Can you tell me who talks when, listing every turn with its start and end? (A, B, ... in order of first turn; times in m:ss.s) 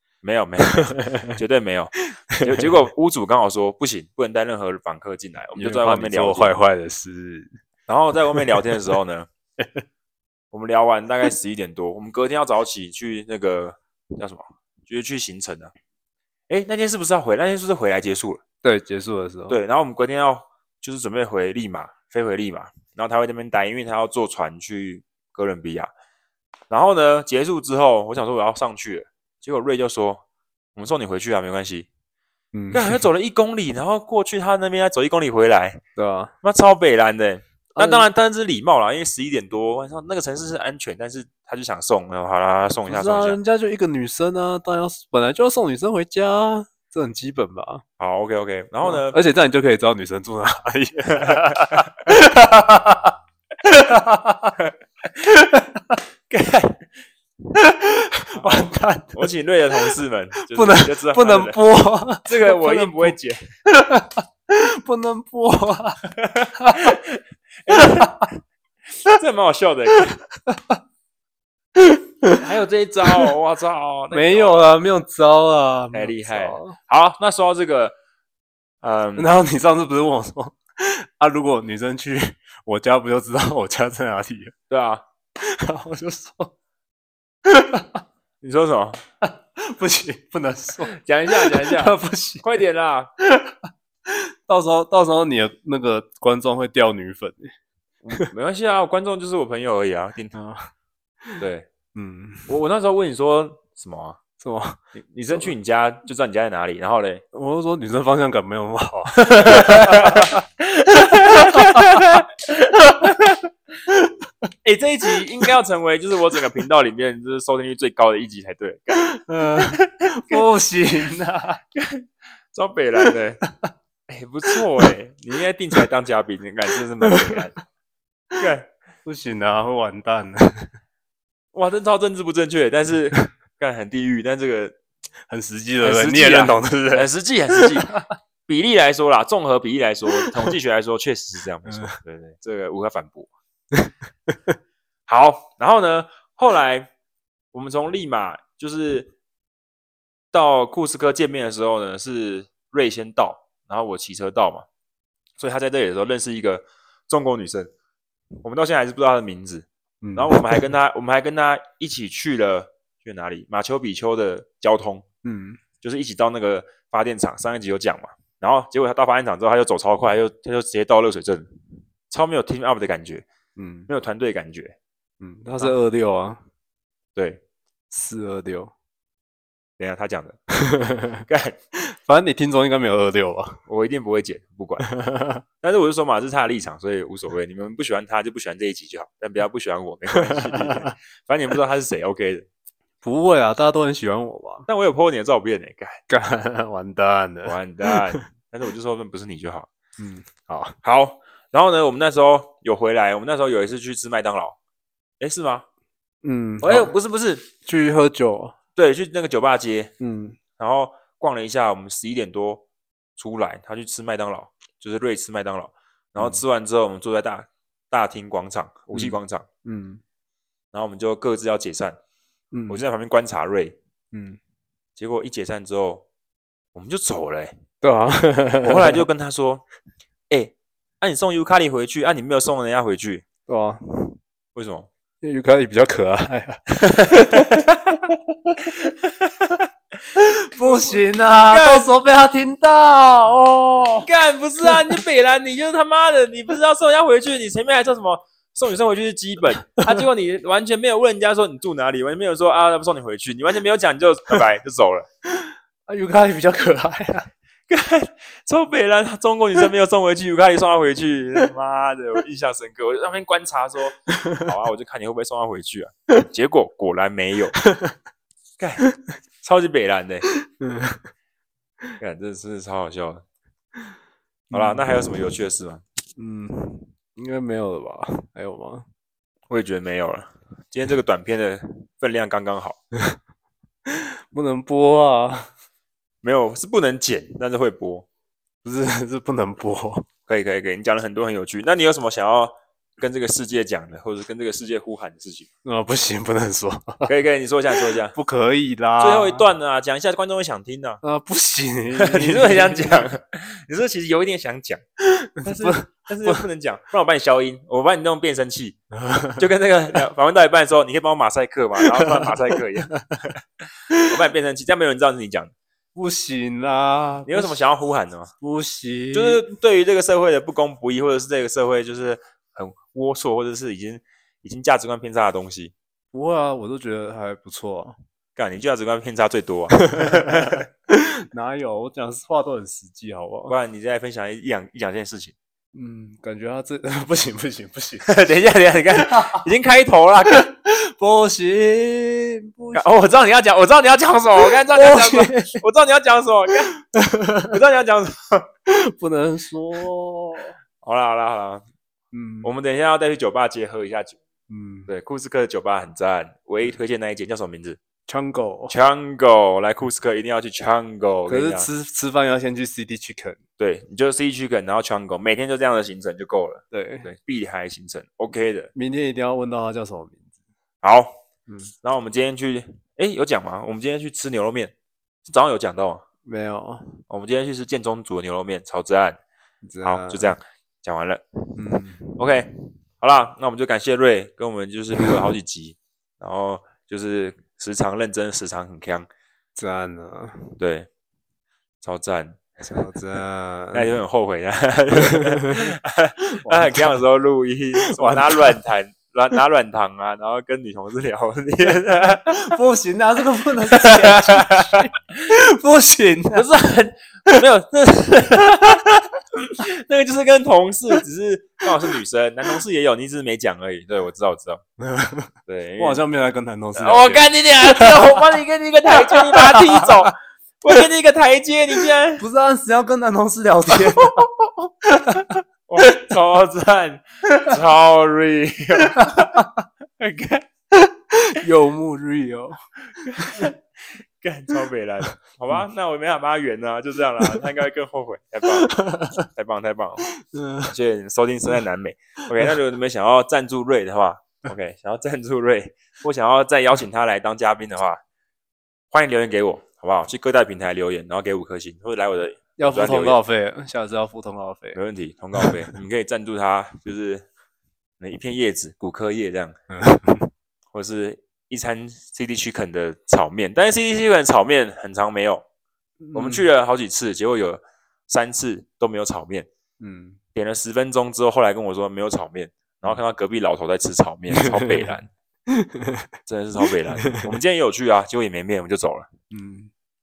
0:00.2-0:06.6 A
0:00.8-0:01.3 B
0:05.6-0:07.5 B
0:07.9-0:09.3 A
0:10.5-0:15.7 A
0:16.5-0:18.4 A
0:18.6-0:19.6 B
0:19.5-0:25.9 A
0:26.7-0:30.2 A
0:30.8-0:31.9 A
0:32.5-0:33.0 B
0:32.7-0:35.8 A
0:36.0-0:36.3 B
0:36.4-0:43.4 A
0:37.7-0:38.0 B
0:42.9-0:47.8 B
0:48.0-0:49.2 A
0:48.8-0:54.5 B
0:55.2-0:56.0 B
0:56.3-0:56.8 A
0:57.5-0:59.2 B
0:58.4-1:01.6 A
1:00.5-1:03.1 B
1:02.2-1:03.5 A
1:03.7-1:06.0 B
1:06.2-1:08.2 A
1:07.7-1:08.2 B
1:09.0-1:10.2 A
1:10.3-1:10.8 B
1:11.8-1:12.4 B
1:12.3-1:14.8 A
1:14.1-1:16.8 B
1:15.9-1:18.0 A
1:18.8-1:19.3 A
1:19.2-1:24.5 B
1:24.7-1:25.0 A
1:25.4-1:26.5 B
1:27.4-1:28.0 B
1:28.4-1:29.0 A
1:29.3-1:32.4 B
1:30.9-1:33.1 A
1:33.2-1:33.6 B
1:34.1-1:37.5 B
1:38.0-1:40.3 A
1:40.3-1:40.7 B
1:41.4-1:41.7 A
1:41.9-1:42.5 B
1:42.5-1:44.2 A
1:44.4-1:44.8 B
1:44.9-1:47.2 A
1:47.3-1:50.4 B
1:49.4-1:53.4 A
1:53.9-1:54.1 B
1:54.6-2:00.4 A
1:58.9-2:01.6 B
2:01.7-2:03.4 A
2:04.1-2:07.5 A
2:07.0-2:07.4 B
2:08.4-2:08.7 A
2:09.0-2:10.7 B
2:11.5-2:14.7 A
2:15.3-2:18.0 B
2:15.8-2:17.9 A
2:18.4-2:23.3 A
2:20.2-2:20.5 B
2:21.6-2:22.0 B
2:23.7-2:24.3 B
2:25.1-2:26.9 A
2:27.5-2:29.1 A
2:30.3-2:34.6 A
2:35.4-2:37.7 A
2:38.4-2:45.0 A
2:40.0-2:40.6 B
2:45.2-2:45.6 B
2:45.8-2:51.5 A
2:52.1-2:53.2 A
2:53.6-2:53.9 B
2:53.9-2:54.7 A
2:55.2-2:56.4 B
2:57.1-2:57.4 A
2:57.9-2:58.7 B
2:59.8-3:00.4 A
3:00.6-3:01.2 B
3:01.3-3:01.5 A
3:01.9-3:03.6 B
3:03.7-3:04.9 A
3:04.8-3:05.4 B
3:05.6-3:12.4 A
3:10.3-3:10.9 B
3:13.0-3:14.7 B
3:14.7-3:16.0 A
3:16.1-3:18.2 B
3:17.4-3:19.7 A
3:20.0-3:20.8 B
3:20.8-3:24.6 A
3:25.2-3:25.6 A
3:26.2-3:26.9 B
3:26.6-3:27.5 A
3:27.6-3:28.5 B
3:28.8-3:29.9 A
3:30.0-3:30.4 B
3:30.6-3:32.6 A
3:33.2-3:39.4 A
3:36.2-3:36.4 B
3:38.9-3:40.0 B
3:40.7-3:42.0 A
3:42.5-3:42.8 B
3:42.7-3:43.8 A
3:44.1-3:44.4 B
3:45.0-3:46.0 A
3:46.7-3:47.5 A
3:47.8-3:49.0 B
3:48.6-3:49.6 A
3:50.3-3:53.2 A
3:53.5-3:54.2 B
3:54.5-3:54.9 A
3:55.2-3:58.0 B
4:00.1-4:04.1 B
4:01.4-4:01.9 A
4:04.0-4:15.1 A
4:04.6-4:05.0 B
4:15.4-4:17.3 B
4:17.7-4:27.6 A
4:27.6-4:27.9 B
4:28.6-4:28.8 A
4:29.4-4:30.3 A
4:30.4-4:31.0 B
4:32.0-4:33.2 A
4:34.5-4:35.0 B
4:34.5-4:35.8 A
4:36.2-4:38.8 B
4:39.5-4:42.8 A
4:43.8-4:45.5 B
4:46.2-4:48.1 A
4:48.6-4:50.0 B
4:50.3-4:55.5 A
4:55.6-4:57.1 B
4:57.0-4:58.1 A
4:58.1-4:59.4 B
4:59.0-5:01.0 A
5:01.0-5:03.1 B
5:02.0-5:04.8 A
5:05.1-5:06.4 B
5:05.4-5:08.8 A
5:09.0-5:09.4 B
5:09.3-5:13.4 A
5:11.9-5:12.3 B
5:14.0-5:15.5 A
5:15.9-5:17.6 B
5:17.2-5:18.3 A
5:18.4-5:19.4 B
5:19.1-5:25.7 A
5:26.1-5:28.0 B
5:28.4-5:30.6 A
5:29.8-5:30.2 B
5:30.9-5:33.5 B
5:33.5-5:35.3 A
5:35.7-5:38.1 B
5:38.0-5:40.5 A
5:39.0-5:39.4 B
5:40.4-5:42.9 B
5:42.7-5:46.8 A
5:44.4-5:45.6 B
5:46.9-5:47.6 B
5:47.4-5:48.4 A
5:48.7-5:50.6 B
5:50.8-5:51.6 A
5:52.1-5:52.5 B
5:52.4-5:54.2 A
5:54.5-5:54.9 B
5:54.9-5:57.8 A
5:58.1-5:58.8 B
5:58.7-6:01.7 A
6:01.2-6:03.4 B
6:03.6-6:08.7 A
6:06.7-6:07.1 B
6:08.7-6:10.3 B
6:10.8-6:11.2 A
6:11.5-6:11.7 B
6:11.8-6:14.7 A
6:15.2-6:16.0 A
6:16.2-6:17.0 B
6:17.1-6:19.2 A
6:19.6-6:20.3 B
6:19.8-6:21.2 A
6:21.6-6:22.2 B
6:22.2-6:29.1 A
6:29.6-6:30.6 B
6:30.6-6:30.9 A
6:31.8-6:32.9 A
6:32.6-6:34.0 B
6:33.7-6:42.5 A
6:35.0-6:35.7 B
6:36.3-6:37.0 B
6:37.9-6:38.6 B
6:42.2-6:46.5 B
6:43.7-6:44.8 A
6:46.3-6:54.6 A
6:54.8-6:58.4 B
6:55.5-6:56.0 A
6:56.7-7:02.2 A
6:58.9-7:00.1 B
7:02.2-7:04.3 B
7:04.8-7:06.0 B
7:05.7-7:09.4 A
7:08.9-7:09.5 B
7:10.0-7:10.5 A
7:10.7-7:12.6 B
7:13.0-7:13.5 A
7:13.2-7:13.5 B
7:14.2-7:20.1 A
7:18.6-7:19.2 B
7:20.2-7:20.7 B
7:20.6-7:28.0 A
7:28.9-7:33.2 A
7:32.6-7:34.8 B
7:34.7-7:37.2 A
7:35.4-7:35.7 B
7:38.0-7:39.6 A
7:39.7-7:40.3 B
7:40.7-7:45.4 A
7:46.0-7:46.4 B
7:46.1-7:49.5 A
7:49.8-7:50.2 B
7:50.3-7:55.1 A
7:54.3-7:54.9 B
7:55.5-7:56.1 B
7:56.3-7:59.1 A
7:57.0-7:57.3 B
7:59.3-7:59.7 B